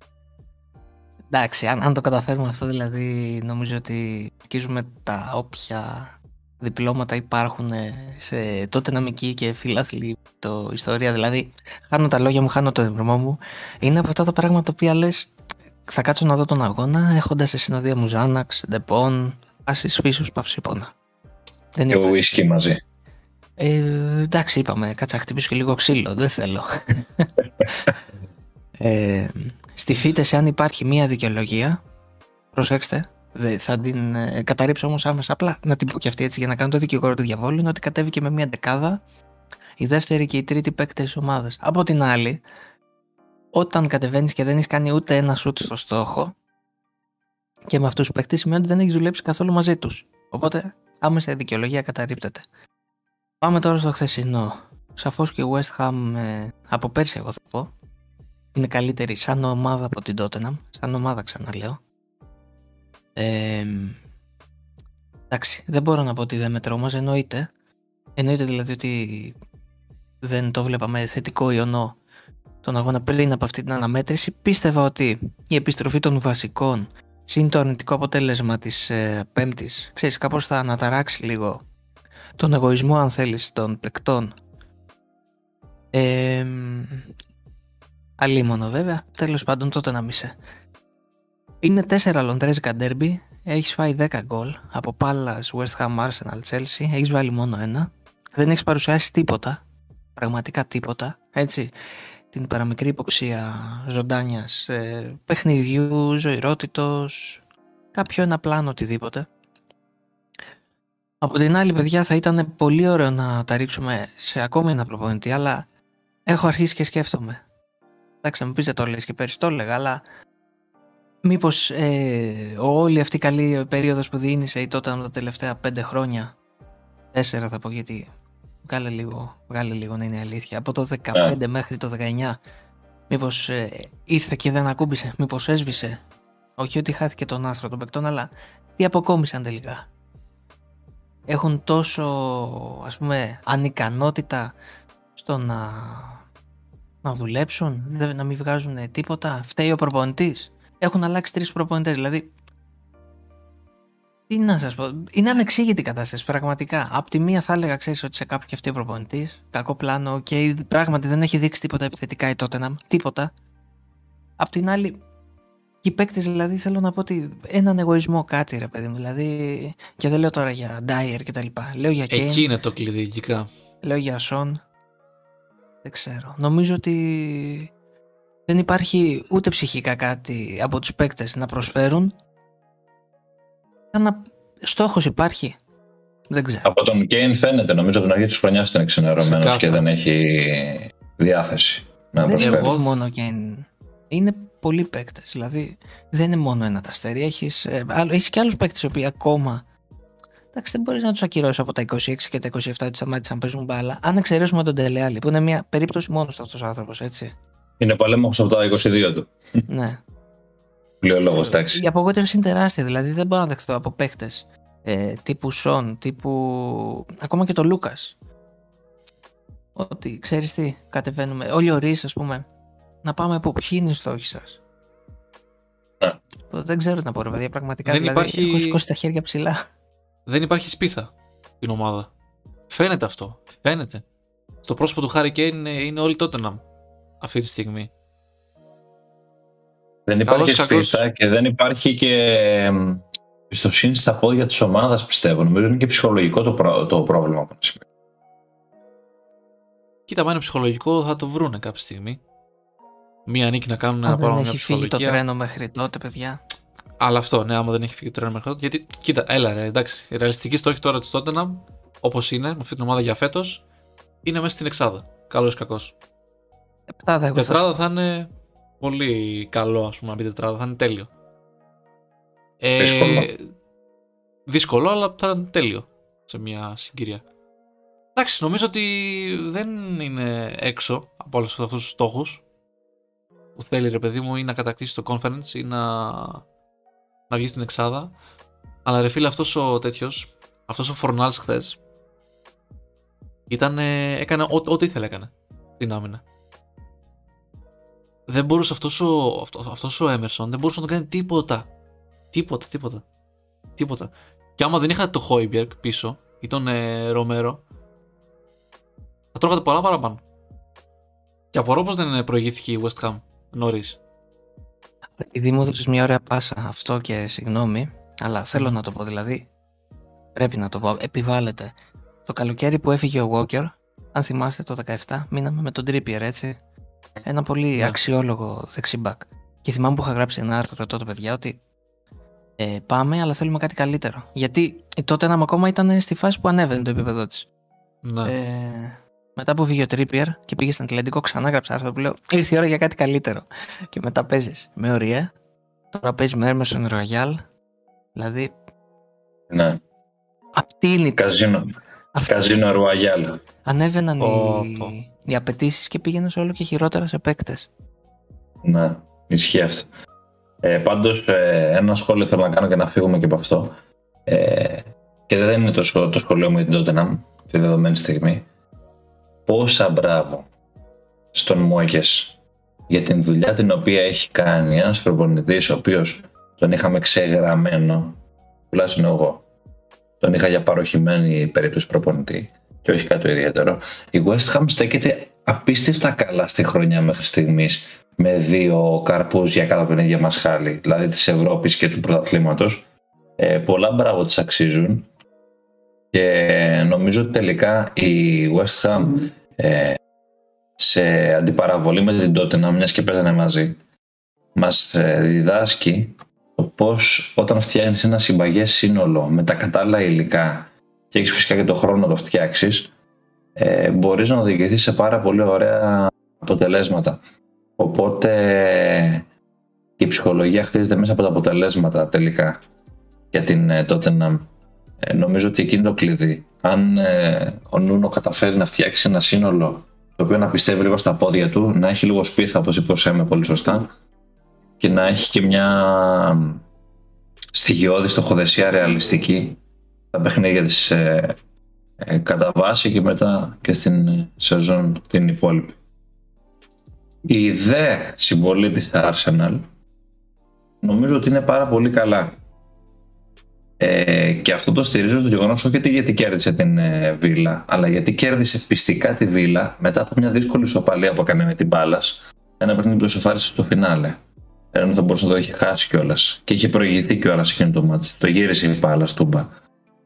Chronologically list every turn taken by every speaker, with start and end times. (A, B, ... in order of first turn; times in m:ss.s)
0:01.3-0:15.3 A
0:15.9-0:20.9 A
0:21.7-0:22.2 A
0:21.9-0:22.8 B
0:23.6-0:27.3 A
0:28.8-0:31.8 A
0:32.5-0:39.0 A
0:39.8-0:42.4 A
0:43.5-0:46.3 A
0:47.7-0:52.4 A
0:53.4-0:57.7 A
0:58.5-1:01.8 A
1:03.2-1:04.0 A
1:05.3-1:07.5 A
1:08.2-1:09.3 A
1:10.2-1:12.0 A
1:12.6-1:21.6 A
1:22.4-1:24.3 A
1:25.9-1:27.1 A
1:28.2-1:30.3 A
1:31.6-1:39.6 A
1:40.2-1:41.7 A
1:42.3-1:47.4 A
1:47.9-1:49.3 A
1:51.2-1:55.6 A
1:56.2-1:57.4 A
1:58.2-2:00.0 A
2:01.2-2:06.4 A
2:07.1-2:08.1 A
2:08.6-2:12.4 A
2:11.1-2:11.4 B
2:13.1-2:16.0 A
2:16.6-2:19.9 A
2:21.3-2:24.5 A
2:25.2-2:26.2 A
2:27.0-2:32.3 A
2:34.3-2:43.3 A
2:44.4-2:45.0 A
2:45.8-2:52.5 A
2:52.1-2:53.5 C
2:53.8-2:54.6 A
2:55.8-2:57.7 A
2:58.5-3:02.1 A
3:03.9-3:05.6 A
3:06.3-3:06.7 A
3:06.6-3:12.8 B
3:09.2-3:09.8 C
3:12.2-3:19.6 A
3:12.4-3:12.9 C
3:20.5-3:27.3 A
3:27.8-3:29.3 B
3:29.7-3:30.0 A
3:31.0-3:31.8 B
3:31.3-3:38.2 A
3:39.8-3:42.4 A
3:43.0-3:44.6 A
3:46.5-3:49.6 A
3:47.8-3:48.8 C
3:50.2-3:52.1 C
3:52.7-3:54.0 C
3:54.6-3:56.6 C
3:57.2-3:57.9 C
4:00.1-4:07.8 B
4:00.3-4:01.0 C
4:10.1-4:12.2 C
4:13.3-4:15.2 C
4:14.0-4:16.4 A
4:17.0-4:23.6 C
4:24.2-4:25.9 C
4:27.0-4:27.7 A
4:27.3-4:31.1 C
4:32.6-4:33.4 C
4:32.8-4:33.3 B
4:34.5-4:37.2 C
4:38.1-4:42.4 C
4:43.6-4:46.4 C
4:47.3-4:48.1 C
4:48.8-4:51.8 C
4:53.5-4:56.2 C
4:58.3-5:01.7 C
5:02.3-5:03.0 C
5:03.8-5:07.6 C
5:09.3-5:10.2 C
5:11.5-5:14.0 C
5:15.2-5:19.5 A
5:18.5-5:18.8 C
5:20.3-5:21.7 A
5:22.2-5:26.5 A
5:27.2-5:31.6 A
5:32.6-5:37.5 A
5:38.0-5:38.4 C
5:38.2-5:45.3 A
5:45.9-5:47.4 A
5:48.2-5:48.5 A
5:49.5-5:49.8 B
5:50.6-5:51.2 A
5:51.1-5:51.7 B
5:52.1-5:52.7 A
5:52.2-5:53.4 B
5:53.6-5:57.7 A
5:54.2-5:54.9 C
5:58.6-5:59.9 B
6:00.6-6:08.4 B
6:09.4-6:10.5 B
6:11.3-6:12.4 B
6:12.9-6:18.2 B
6:18.7-6:19.4 B
6:20.2-6:32.8 B
6:33.4-6:35.1 B
6:36.1-6:40.0 B
6:40.8-6:43.8 B
6:44.5-6:52.9 B
6:53.6-6:57.2 B
6:57.8-6:59.2 B
7:00.0-7:02.6 B
7:03.3-7:04.5 B
7:05.0-7:13.9 B
7:14.8-7:16.6 B
7:17.5-7:19.6 B
7:20.1-7:21.4 B
7:22.0-7:25.8 B
7:27.2-7:29.6 B
7:30.8-7:32.4 B
7:33.8-7:44.2 B
7:44.7-7:49.5 B